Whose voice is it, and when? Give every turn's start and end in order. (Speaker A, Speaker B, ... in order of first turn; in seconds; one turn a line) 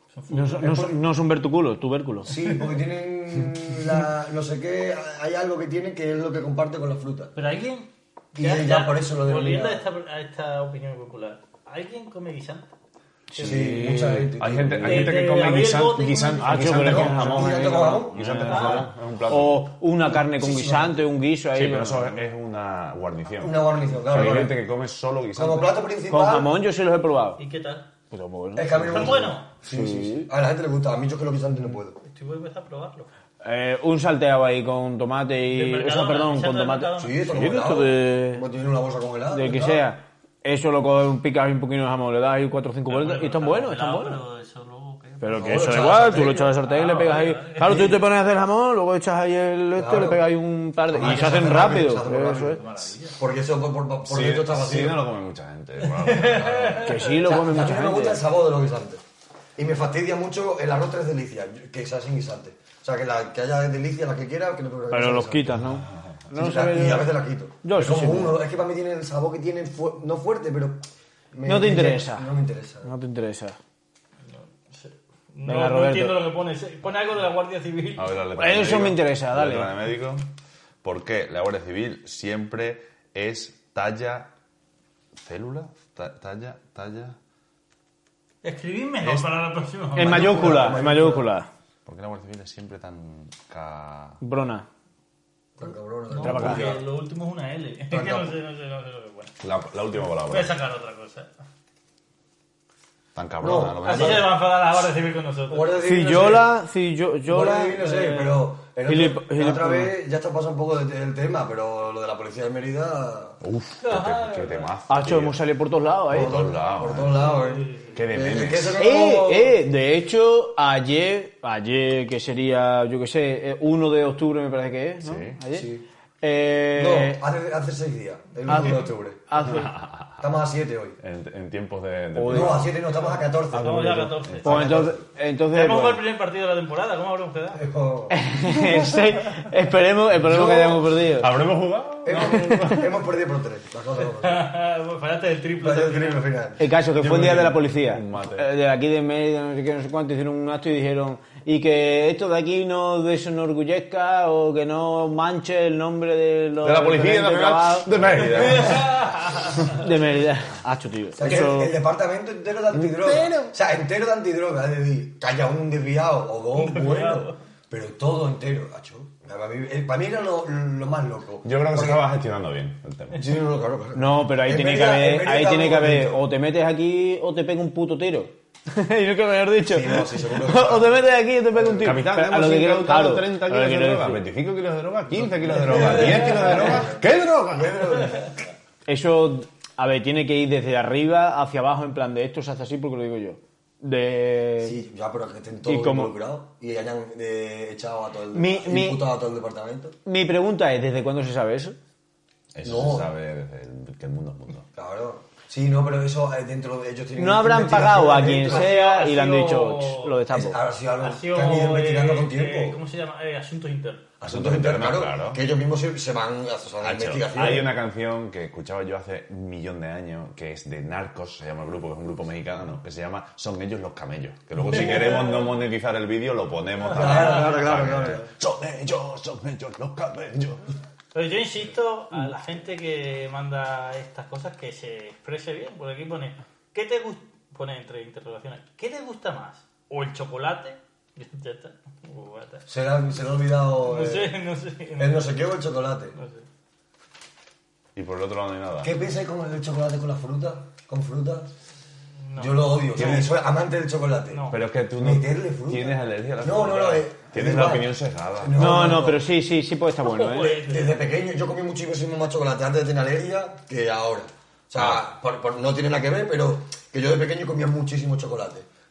Speaker A: 0.1-1.0
Speaker B: 0.3-2.4
Speaker C: 2.2-7.3
Speaker A: 7.3-12.7
Speaker C: 8.3-9.8
Speaker B: 13.3-14.3
Speaker C: 13.4-15.2
Speaker D: 14.4-19.7
Speaker A: 14.8-16.8
Speaker B: 16.4-22.2
Speaker C: 16.8-18.9
Speaker A: 18.4-18.9
Speaker C: 20.1-21.0
Speaker D: 21.5-25.8
Speaker C: 23.4-24.6
Speaker B: 24.1-24.5
Speaker C: 25.3-26.5
Speaker B: 26.1-27.4
Speaker A: 27.4-27.9
Speaker B: 28.1-29.1
Speaker C: 28.5-32.0
Speaker A: 28.9-29.5
Speaker B: 29.7-30.3
Speaker A: 32.0-33.1
Speaker B: 33.4-38.4
Speaker A: 35.5-37.5
Speaker C: 37.0-39.9
Speaker B: 39.3-44.2
Speaker A: 42.9-48.0
Speaker B: 45.2-52.6
Speaker C: 45.3-46.5
Speaker C: 47.7-47.9
Speaker C: 49.8-50.2
Speaker C: 50.9-55.0
Speaker A: 52.3-53.2
Speaker D: 54.1-56.8
Speaker A: 55.8-57.2
Speaker C: 56.7-59.0
Speaker B: 56.8-58.2
Speaker C: 59.5-65.7
Speaker B: 64.9-68.4
Speaker C: 66.3-70.8
Speaker C: 71.3-72.9
Speaker B: 71.4-72.3
Speaker B: 72.8-73.6
Speaker A: 74.3-78.1
Speaker B: 75.4-76.2
Speaker D: 78.0-80.2
Speaker B: 78.4-79.7
Speaker D: 80.8-84.3
Speaker D: 85.2-87.2
Speaker A: 88.4-90.8
Speaker D: 89.0-89.3
Speaker B: 90.0-91.5
Speaker C: 90.0-91.3
Speaker D: 91.8-94.2
Speaker B: 94.2-94.7
Speaker C: 95.6-96.8
Speaker A: 96.1-99.3
Speaker B: 96.2-96.7
Speaker C: 97.9-98.3
Speaker D: 99.4-100.6
Speaker A: 100.3-101.3
Speaker D: 103.1-104.4
Speaker C: 103.4-104.3
Speaker A: 103.8-105.9
Speaker C: 105.5-106.5
Speaker B: 105.8-109.9
Speaker C: 107.3-113.4
Speaker D: 113.4-115.4
Speaker A: 113.8-114.7
Speaker B: 114.9-116.4
Speaker D: 116.1-117.3
Speaker C: 116.1-119.6
Speaker A: 117.2-118.0
Speaker D: 117.9-118.9
Speaker B: 118.8-125.7
Speaker D: 125.0-125.4
Speaker C: 125.5-125.8
Speaker B: 126.2-127.2
Speaker C: 126.7-129.3
Speaker B: 128.5-129.7
Speaker D: 129.4-130.2
Speaker C: 130.2-131.0
Speaker D: 131.0-132.8
Speaker B: 132.1-132.7
Speaker C: 132.3-135.0
Speaker A: 133.1-134.6
Speaker D: 133.7-134.4
Speaker B: 134.4-136.0
Speaker A: 135.5-137.6
Speaker C: 137.5-138.2
Speaker B: 138.1-141.3
Speaker C: 140.2-140.8
Speaker D: 140.2-142.9
Speaker C: 142.0-144.5
Speaker B: 142.3-142.7
Speaker A: 144.1-146.2
Speaker C: 145.6-147.5
Speaker B: 146.6-158.9
Speaker D: 147.0-148.5
Speaker D: 156.6-159.0
Speaker A: 158.5-159.8
Speaker B: 159.6-161.7
Speaker C: 161.1-172.0
Speaker A: 166.6-167.3
Speaker D: 171.4-173.2
Speaker C: 173.1-176.2
Speaker B: 173.9-184.2
Speaker C: 179.6-181.0
Speaker C: 181.5-182.0
Speaker D: 181.8-188.1
Speaker C: 185.4-188.3
Speaker B: 188.8-194.8
Speaker C: 194.6-199.9
Speaker B: 195.7-196.1
Speaker B: 198.3-199.0
Speaker B: 200.0-201.8
Speaker D: 202.5-204.7
Speaker C: 202.6-203.1
Speaker C: 204.7-208.7
Speaker B: 207.2-210.6
Speaker A: 208.3-210.2
Speaker C: 210.3-212.8
Speaker A: 211.0-214.1
Speaker C: 214.2-217.8
Speaker D: 214.2-215.4
Speaker D: 216.8-230.7
Speaker C: 224.6-225.3
Speaker A: 224.7-225.5
Speaker C: 226.9-228.3
Speaker A: 227.1-227.4
Speaker A: 231.1-242.7
Speaker C: 242.7-244.3
Speaker A: 243.8-245.3
Speaker C: 245.0-246.1
Speaker A: 246.1-246.4
Speaker D: 247.9-248.9
Speaker C: 248.8-251.5
Speaker A: 252.2-253.3
Speaker C: 252.4-259.2
Speaker D: 252.9-253.3
Speaker A: 254.3-254.6
Speaker D: 254.5-258.6
Speaker B: 258.5-260.6
Speaker A: 260.0-261.0
Speaker C: 260.6-268.6